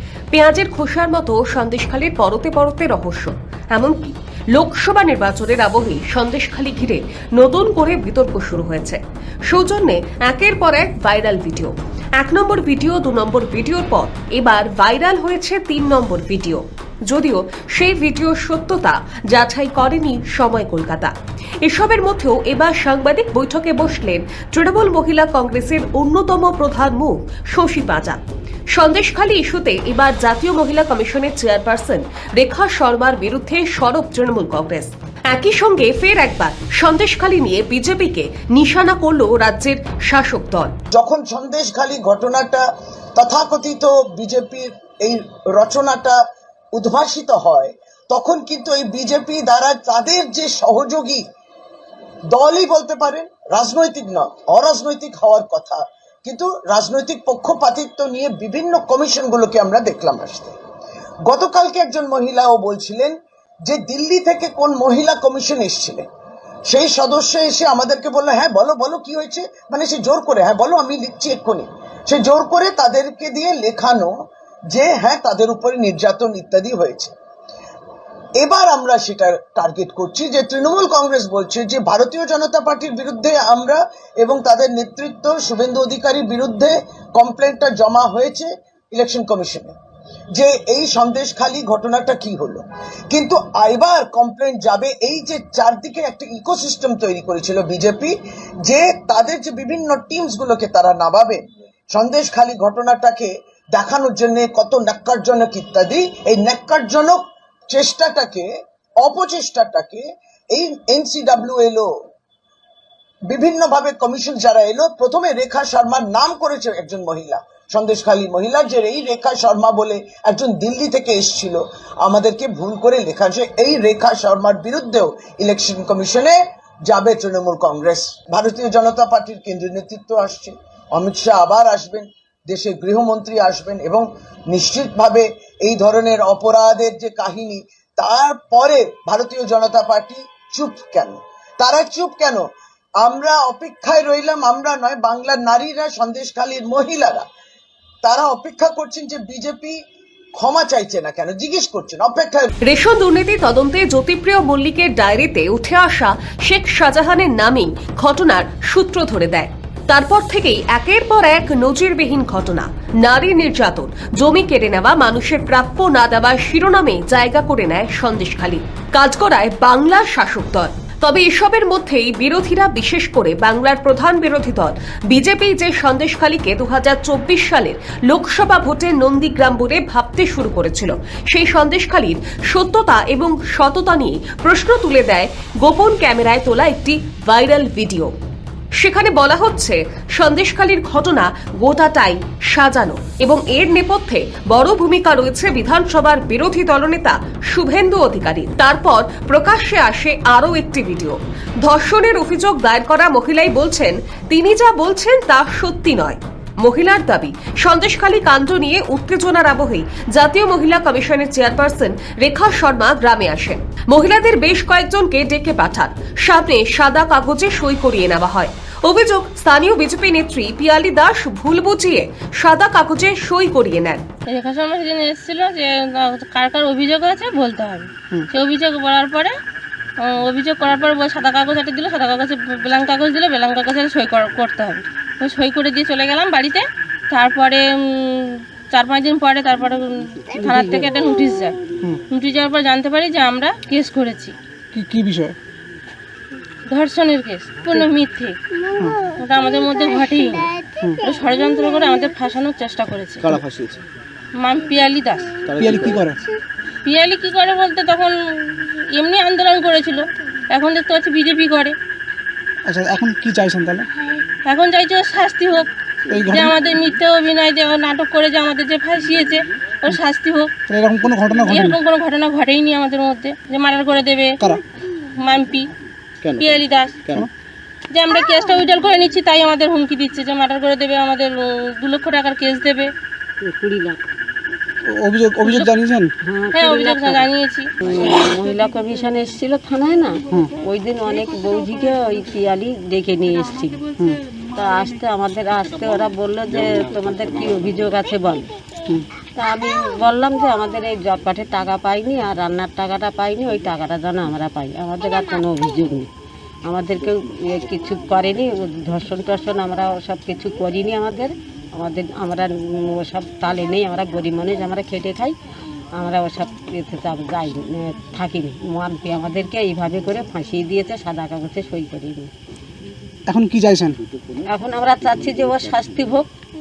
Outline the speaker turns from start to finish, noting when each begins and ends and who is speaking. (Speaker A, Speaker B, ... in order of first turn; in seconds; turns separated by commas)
Speaker A: 0.3-28.2, Speaker A: 28.7-40.7, Speaker B: 40.9-42.6, Speaker B: 43.2-46.2, Speaker B: 46.7-51.2, Speaker B: 52.3-60.5, Speaker B: 61.2-63.1, Speaker B: 63.6-66.1, Speaker B: 66.7-74.1, Speaker B: 74.7-77.1, Speaker B: 78.4-89.7, Speaker B: 90.3-101.4, Speaker B: 101.9-108.5, Speaker B: 109.0-111.9, Speaker B: 113.3-142.4, Speaker B: 143.0-147.2, Speaker B: 148.0-149.8, Speaker B: 150.4-152.5, Speaker A: 152.7-188.1, Speaker A: 188.8-224.0, Speaker C: 224.3-229.3, Speaker C: 230.0-241.6, Speaker D: 240.6-240.8, Speaker C: 242.1-244.3, Speaker E: 244.7-245.3, Speaker C: 246.7-248.4, Speaker C: 249.2-253.4, Speaker E: 253.2-253.8, Speaker C: 254.4-255.3, Speaker E: 255.5-256.2, Speaker C: 256.8-261.8, Speaker E: 262.6-263.9, Speaker C: 264.4-265.7, Speaker E: 266.1-266.5, Speaker C: 266.2-270.5, Speaker E: 270.7-271.8, Speaker C: 271.4-274.4, Speaker C: 275.1-275.7, Speaker E: 276.2-277.3, Speaker C: 276.4-276.9, Speaker C: 277.9-282.9, Speaker D: 283.4-284.0, Speaker E: 284.9-286.1, Speaker C: 285.4-285.7, Speaker D: 286.2-287.2, Speaker C: 286.5-287.7, Speaker D: 287.8-293.9, Speaker D: 294.6-298.5, Speaker D: 299.4-306.1, Speaker D: 306.6-315.3, Speaker D: 315.9-322.3, Speaker E: 323.3-324.0, Speaker D: 324.5-326.3